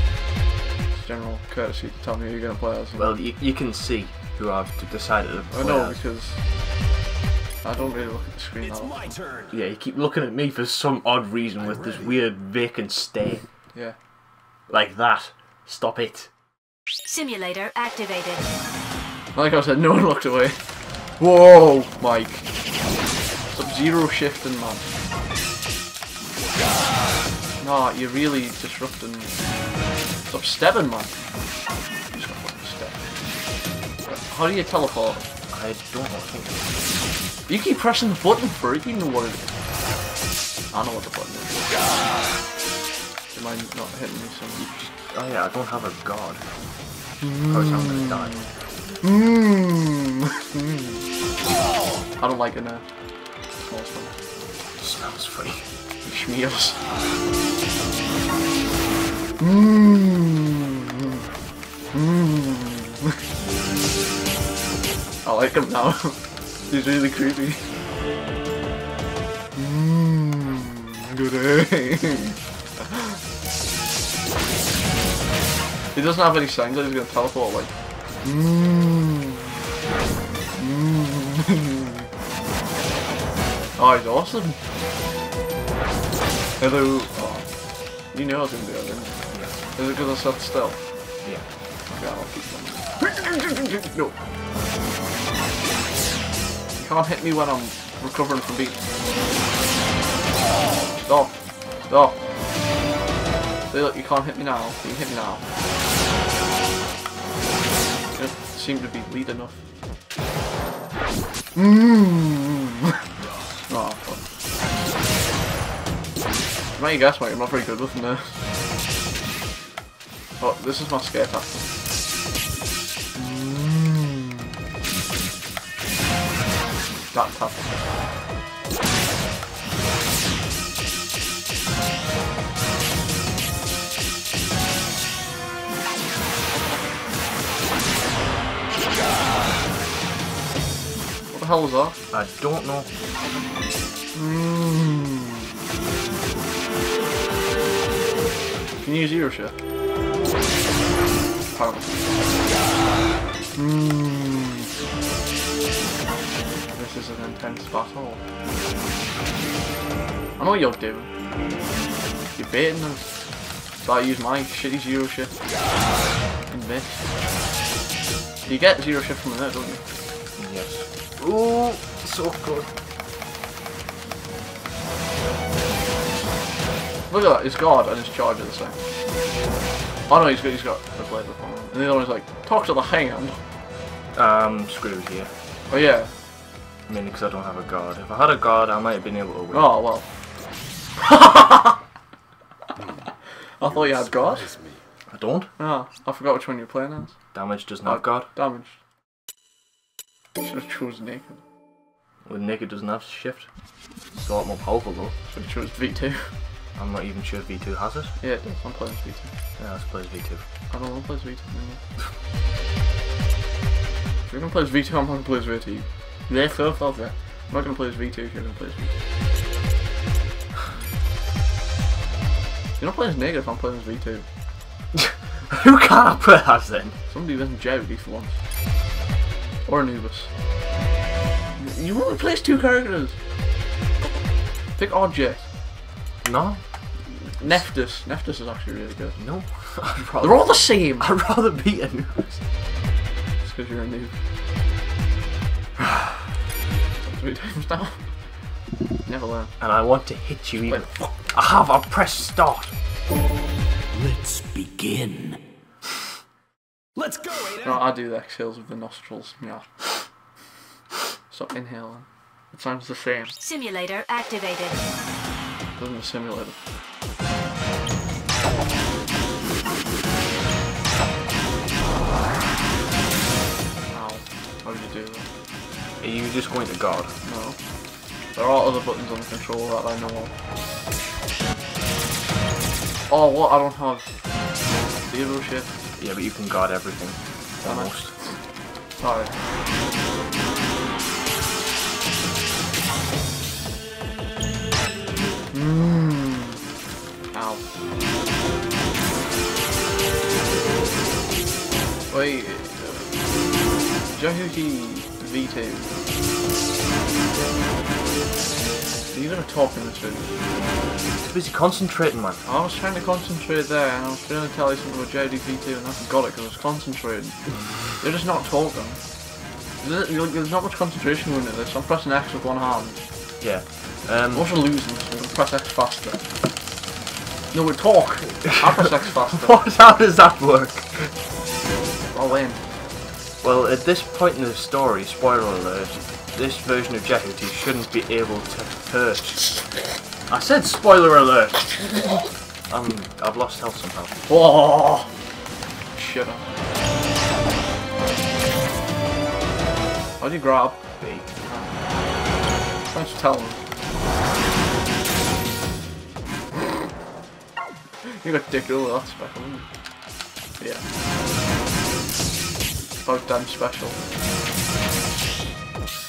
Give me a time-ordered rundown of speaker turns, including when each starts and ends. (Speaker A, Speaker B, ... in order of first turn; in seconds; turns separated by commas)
Speaker A: 0.9-3.2, Speaker B: 2.9-6.0, Speaker A: 5.5-6.4, Speaker A: 7.6-9.1, Speaker C: 8.6-9.5, Speaker B: 9.5-13.4, Speaker C: 11.6-12.2, Speaker B: 14.7-16.3, Speaker D: 17.1-18.5, Speaker A: 19.3-20.6, Speaker A: 21.2-22.5, Speaker A: 23.5-24.9, Speaker A: 27.6-29.3, Speaker A: 30.2-31.1, Speaker A: 32.1-33.1, Speaker A: 34.0-35.2, Speaker B: 35.5-36.6, Speaker A: 37.5-39.4, Speaker A: 40.7-41.6, Speaker A: 43.3-44.9, Speaker B: 44.9-46.4, Speaker A: 47.2-48.5, Speaker B: 47.5-48.5, Speaker A: 49.0-51.0, Speaker A: 52.2-52.8, Speaker A: 53.6-54.1, Speaker B: 54.8-55.7, Speaker A: 56.0-56.8, Speaker A: 59.4-61.2, Speaker A: 61.9-63.2, Speaker A: 65.2-67.6, Speaker A: 69.5-73.2, Speaker A: 75.9-79.5, Speaker A: 80.6-82.1, Speaker A: 83.8-84.6, Speaker A: 86.6-87.5, Speaker A: 88.1-90.8, Speaker A: 91.9-94.2, Speaker A: 96.8-98.8, Speaker A: 101.0-101.3, Speaker A: 101.9-102.2, Speaker A: 103.7-105.4, Speaker A: 108.1-109.6, Speaker A: 111.5-112.6, Speaker A: 113.7-114.2, Speaker A: 116.8-118.4, Speaker A: 120.4-121.6, Speaker A: 123.1-124.5, Speaker A: 127.1-127.7, Speaker A: 141.3-142.0, Speaker B: 142.1-142.9, Speaker A: 144.1-145.4, Speaker A: 148.8-149.5, Speaker A: 151.5-152.0, Speaker A: 153.5-154.7, Speaker A: 156.7-158.2, Speaker A: 160.4-161.1, Speaker A: 162.3-163.1, Speaker A: 163.8-165.4, Speaker A: 166.5-167.0, Speaker A: 168.4-169.8, Speaker B: 170.4-172.7, Speaker A: 177.1-178.8, Speaker A: 180.1-183.4, Speaker B: 184.1-185.3, Speaker A: 185.7-186.1, Speaker B: 186.9-189.8, Speaker A: 189.5-190.1, Speaker A: 191.0-191.8, Speaker A: 193.6-194.5, Speaker C: 193.7-194.8, Speaker B: 195.1-195.5, Speaker A: 195.6-197.2, Speaker B: 197.3-198.3, Speaker A: 197.8-198.8, Speaker A: 200.4-201.4, Speaker B: 202.2-203.5, Speaker B: 204.1-205.2, Speaker A: 205.3-206.3, Speaker B: 206.7-208.1, Speaker A: 208.2-209.3, Speaker B: 209.6-210.4, Speaker A: 210.7-211.8, Speaker A: 214.2-218.9, Speaker A: 222.8-224.2, Speaker B: 224.9-227.0, Speaker A: 227.1-228.4, Speaker A: 229.6-230.3, Speaker A: 231.6-233.2, Speaker A: 234.8-235.5, Speaker B: 236.2-236.6, Speaker A: 237.1-239.2, Speaker B: 237.4-237.7, Speaker B: 239.2-242.4, Speaker A: 240.0-241.1, Speaker A: 243.4-244.1, Speaker A: 247.0-248.1, Speaker A: 249.0-249.6, Speaker B: 249.6-252.7, Speaker A: 250.7-251.2, Speaker C: 253.9-255.4, Speaker C: 256.9-257.9, Speaker A: 257.6-259.9, Speaker A: 261.3-263.3, Speaker D: 263.4-264.8, Speaker A: 265.8-266.6, Speaker A: 273.9-275.3, Speaker B: 276.0-277.1, Speaker A: 277.2-277.6, Speaker A: 278.3-280.3, Speaker A: 283.1-284.1, Speaker A: 285.1-285.7, Speaker B: 286.0-288.1, Speaker A: 287.6-288.4, Speaker A: 289.0-289.3, Speaker A: 295.5-296.6, Speaker A: 297.3-297.6, Speaker A: 302.1-303.1, Speaker A: 304.1-305.9, Speaker A: 309.1-310.3, Speaker B: 311.2-312.5, Speaker A: 312.4-319.0, Speaker A: 319.8-323.0, Speaker B: 323.4-324.5, Speaker A: 324.3-326.3, Speaker A: 327.5-329.6, Speaker B: 329.3-331.1, Speaker A: 332.1-332.6, Speaker B: 333.4-339.5, Speaker B: 340.3-342.0, Speaker B: 342.7-344.1, Speaker A: 344.3-345.1, Speaker A: 345.9-346.4, Speaker A: 350.2-350.8, Speaker B: 351.0-351.3, Speaker A: 351.4-351.7, Speaker A: 352.9-353.6, Speaker A: 358.0-359.7, Speaker A: 363.0-364.0